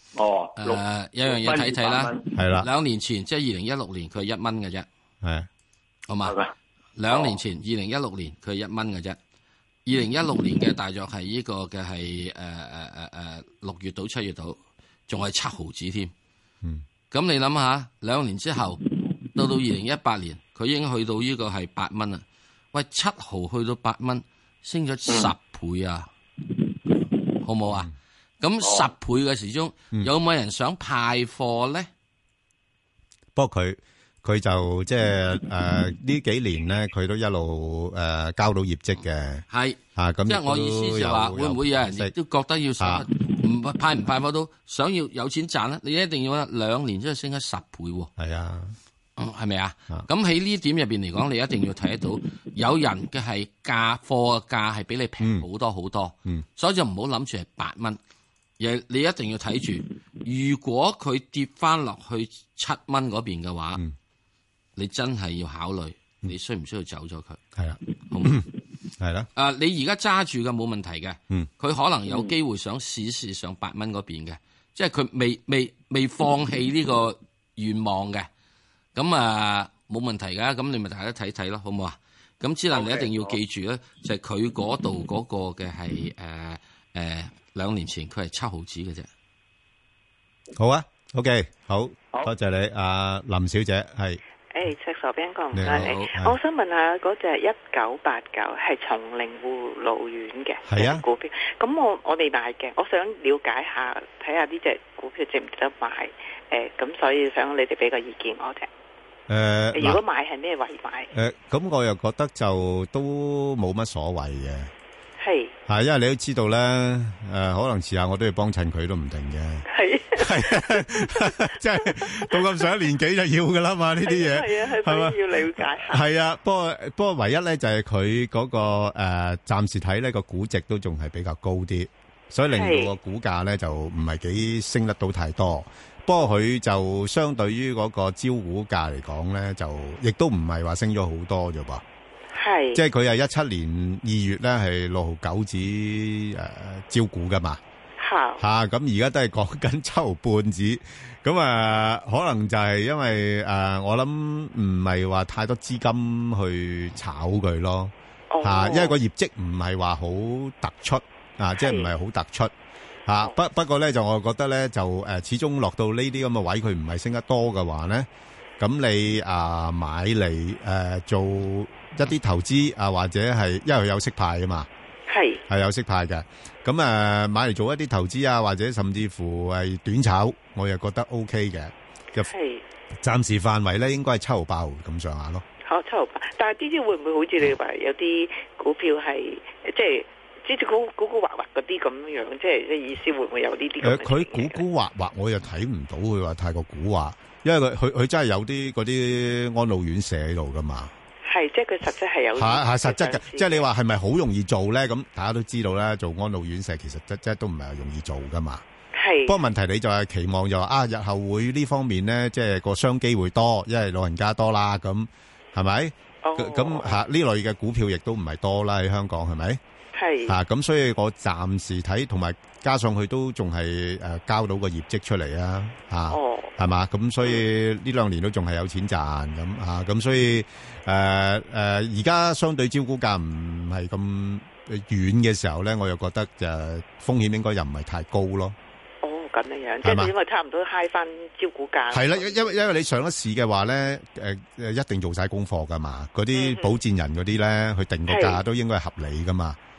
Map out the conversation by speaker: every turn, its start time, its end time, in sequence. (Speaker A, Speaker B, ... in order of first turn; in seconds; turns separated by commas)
Speaker A: 0.1-2.3, Speaker B: 0.6-4.8, Speaker C: 2.3-2.7, Speaker C: 5.2-5.5, Speaker B: 6.1-6.3, Speaker A: 6.2-6.5, Speaker B: 7.0-9.2, Speaker A: 7.1-7.4, Speaker B: 9.8-16.1, Speaker B: 17.1-18.8, Speaker B: 19.3-26.1, Speaker A: 25.1-25.3, Speaker A: 26.5-27.1, Speaker B: 27.4-27.9, Speaker B: 28.4-31.9, Speaker A: 28.6-28.9, Speaker C: 33.3-39.4, Speaker B: 39.5-48.1, Speaker C: 40.0-42.1, Speaker C: 42.8-43.0, Speaker C: 48.2-48.7, Speaker B: 49.2-58.0, Speaker C: 55.2-55.4, Speaker B: 58.6-63.8, Speaker B: 64.8-67.4, Speaker C: 67.5-69.3, Speaker B: 68.1-68.4, Speaker B: 69.3-78.3, Speaker B: 78.9-89.1, Speaker A: 82.7-83.4, Speaker C: 90.5-94.2, Speaker D: 94.5-108.7, Speaker C: 95.5-96.4, Speaker B: 95.6-96.1, Speaker C: 100.7-101.0, Speaker C: 109.3-110.0, Speaker D: 109.7-111.1, Speaker C: 111.1-114.7, Speaker D: 115.2-115.5, Speaker C: 115.7-141.8, Speaker D: 119.7-120.8, Speaker D: 124.0-126.0, Speaker D: 132.5-132.9, Speaker D: 142.3-142.8, Speaker C: 142.7-147.6, Speaker D: 148.0-148.4, Speaker C: 148.4-162.5, Speaker D: 158.3-159.0, Speaker D: 161.6-161.9, Speaker C: 163.1-168.1, Speaker C: 168.6-174.7, Speaker D: 175.1-175.4, Speaker C: 175.5-182.3, Speaker D: 182.2-182.6, Speaker C: 183.0-185.4, Speaker D: 185.6-194.6, Speaker C: 193.8-200.9, Speaker D: 201.2-203.7, Speaker C: 202.3-208.6, Speaker D: 208.9-209.4, Speaker C: 209.2-219.6, Speaker D: 216.2-217.0, Speaker D: 219.9-220.3, Speaker C: 220.3-238.6, Speaker D: 226.1-226.5, Speaker D: 239.0-242.6, Speaker C: 239.8-240.1, Speaker C: 241.9-249.6, Speaker D: 246.3-246.7, Speaker D: 248.1-248.4